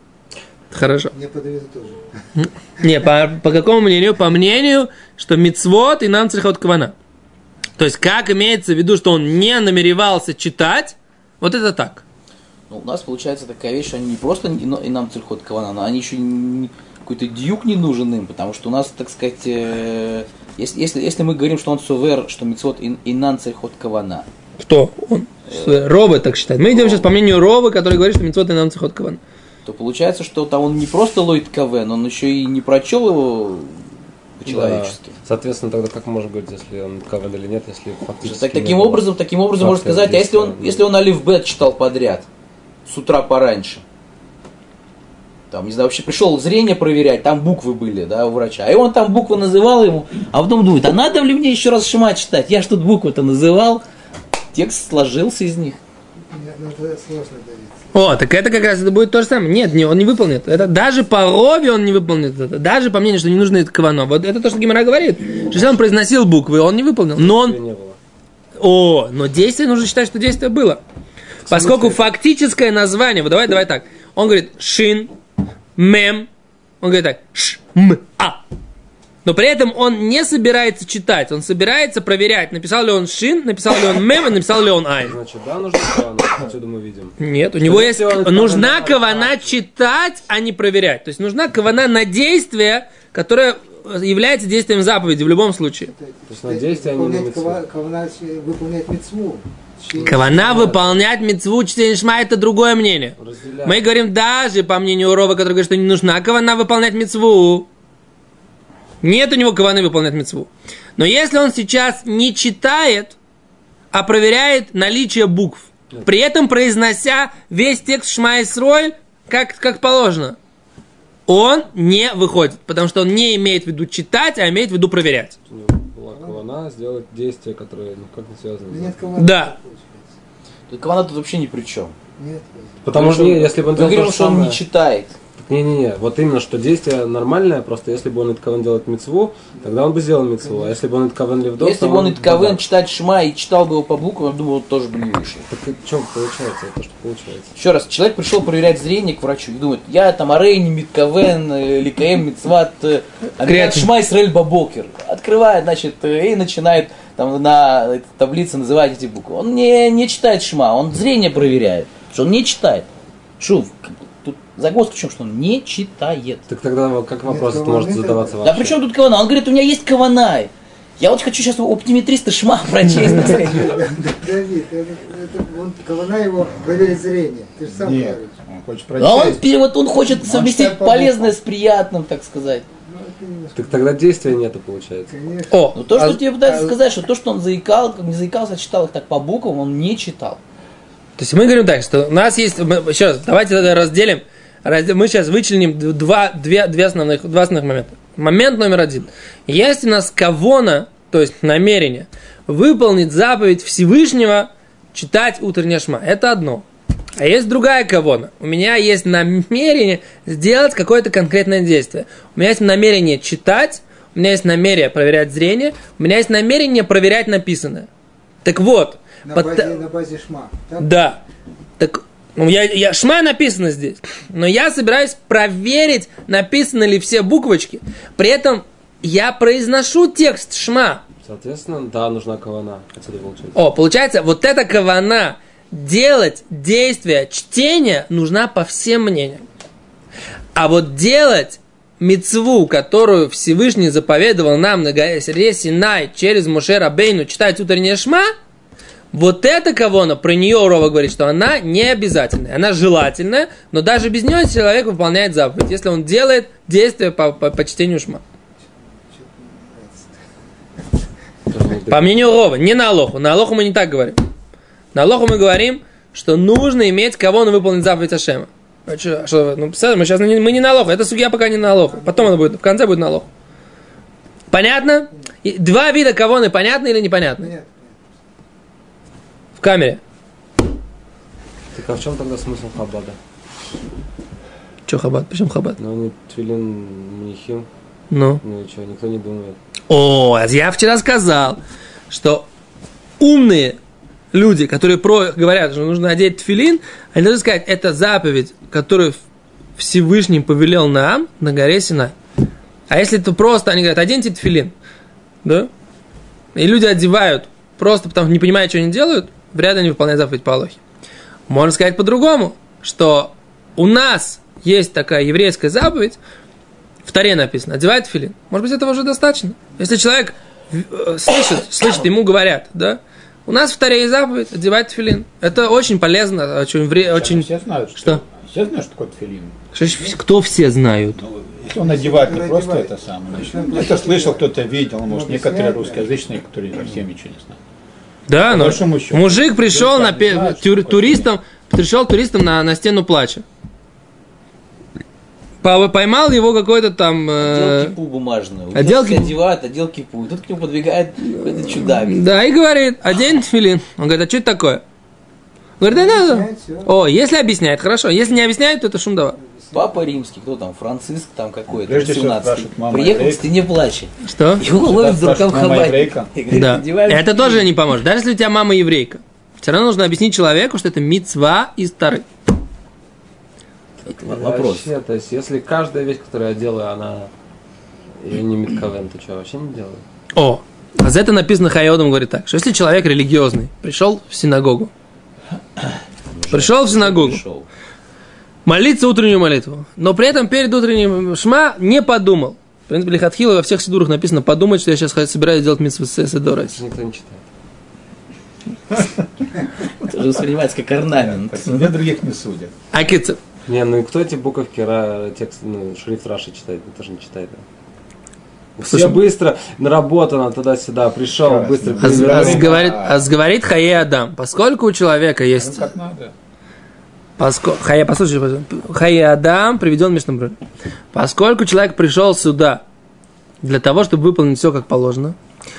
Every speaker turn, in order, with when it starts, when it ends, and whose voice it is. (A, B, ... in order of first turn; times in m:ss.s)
0:00.7-0:01.1 A
0:01.1-0:02.1 B
0:02.4-0:06.9 A
0:07.8-0:12.0 A
0:12.7-0:24.3 C
0:24.6-0:29.2 A
0:25.5-0:25.8 C
0:26.7-0:27.1 C
0:29.6-0:33.8 C
0:34.4-0:35.2 C
0:34.4-0:39.0 D
0:38.2-0:42.3 C
0:39.6-0:40.8 D
0:42.8-0:43.8 C
0:45.5-0:53.8 C
0:54.5-0:55.8 C
0:56.3-0:57.9 B
0:57.9-1:07.6 A
1:07.2-1:08.0 D
1:08.6-1:10.8 A
1:11.5-1:12.0 D
1:11.5-1:15.1 A
1:15.8-1:16.3 A
1:16.8-1:18.4 A
1:19.2-1:25.2 A
1:25.0-1:29.5 D
1:27.2-1:35.9 A
1:35.9-1:40.8 B
1:36.3-1:37.6 D
1:39.9-1:40.8 D
1:40.0-1:47.7 A
1:43.2-1:43.8 D
1:49.0-1:53.2 A
1:53.9-2:00.4 A
2:01.3-2:05.4 A
2:05.5-2:09.0 D
2:06.1-2:06.5 B
2:08.7-2:10.2 B
2:09.2-2:09.5 A
2:10.7-2:11.9 C
2:12.2-2:13.0 B
2:12.8-2:14.6 D
2:12.9-2:15.2 C
2:15.4-2:22.6 D
2:19.5-2:20.8 B
2:21.6-2:25.4 C
2:25.5-2:27.5 D
2:27.6-2:42.9 C
2:33.4-2:33.9 A
2:43.4-2:46.4 C
2:46.5-2:48.8 D
2:47.2-2:48.4 B
2:48.4-2:53.8 C
2:53.1-2:58.3 B
2:57.7-2:59.4 E
2:59.0-3:02.6 C
3:00.2-3:00.6 E
3:00.3-3:01.3 B
3:02.8-3:04.2 B
3:03.5-3:05.1 D
3:05.1-3:05.8 B
3:05.5-3:06.2 A
3:05.8-3:10.4 C
3:06.4-3:06.7 B
3:11.2-3:26.6 A
3:27.2-3:37.9 A
3:38.4-3:39.8 A
3:39.2-3:41.0 B
3:40.8-3:41.2 A
3:41.8-3:51.0 A
3:51.2-3:53.6 D
3:53.6-3:59.4 A
4:00.5-4:08.3 A
4:09.1-4:18.2 A
4:18.7-4:20.2 B
4:21.5-4:22.3 D
4:21.9-4:24.2 A
4:24.9-4:33.3 A
4:31.8-4:32.4 B
4:34.5-4:37.5 A
4:37.4-4:38.2 B
4:39.6-4:40.0 A
4:41.7-4:43.2 D
4:44.9-4:45.8 A
4:45.8-4:47.7 D
4:48.1-4:48.4 A
4:48.4-4:49.6 D
4:49.9-4:52.5 A
4:53.2-4:53.8 A
4:54.3-4:59.2 A
4:59.8-5:02.2 A
5:02.9-5:04.7 A
5:05.4-5:05.7 A
5:06.5-5:10.8 A
5:11.5-5:16.2 A
5:17.0-5:28.2 A
5:27.0-5:29.6 E
5:29.7-5:31.2 A
5:31.2-5:37.6 E
5:31.8-5:34.5 B
5:35.1-5:36.1 B
5:38.3-5:43.4 A
5:38.4-5:41.3 E
5:45.6-5:47.9 A
5:47.4-5:52.2 C
5:48.7-5:49.3 A
5:51.5-5:54.8 A
5:55.8-5:59.4 A
5:55.8-5:56.9 B
5:59.4-6:00.0 B
5:59.7-6:07.7 C
6:01.8-6:03.5 E
6:04.2-6:04.6 A
6:04.6-6:06.3 E
6:06.5-6:12.2 A
6:14.0-6:14.9 C
6:14.2-6:17.3 D
6:18.2-6:20.0 D
6:20.4-6:24.9 A
6:25.8-6:27.7 C
6:26.5-6:27.4 A
6:28.6-6:36.8 A
6:36.5-6:37.4 D
6:38.9-6:40.1 E
6:40.0-6:41.9 C
6:41.2-6:42.7 E
6:42.9-6:43.4 A
6:43.7-6:47.6 D
6:48.8-6:52.8 D
6:48.9-6:49.2 A
6:51.4-6:53.2 E
6:52.0-6:55.9 A
6:55.5-6:56.3 E
6:57.4-7:00.6 A
7:01.1-7:02.8 A
7:03.6-7:05.4 A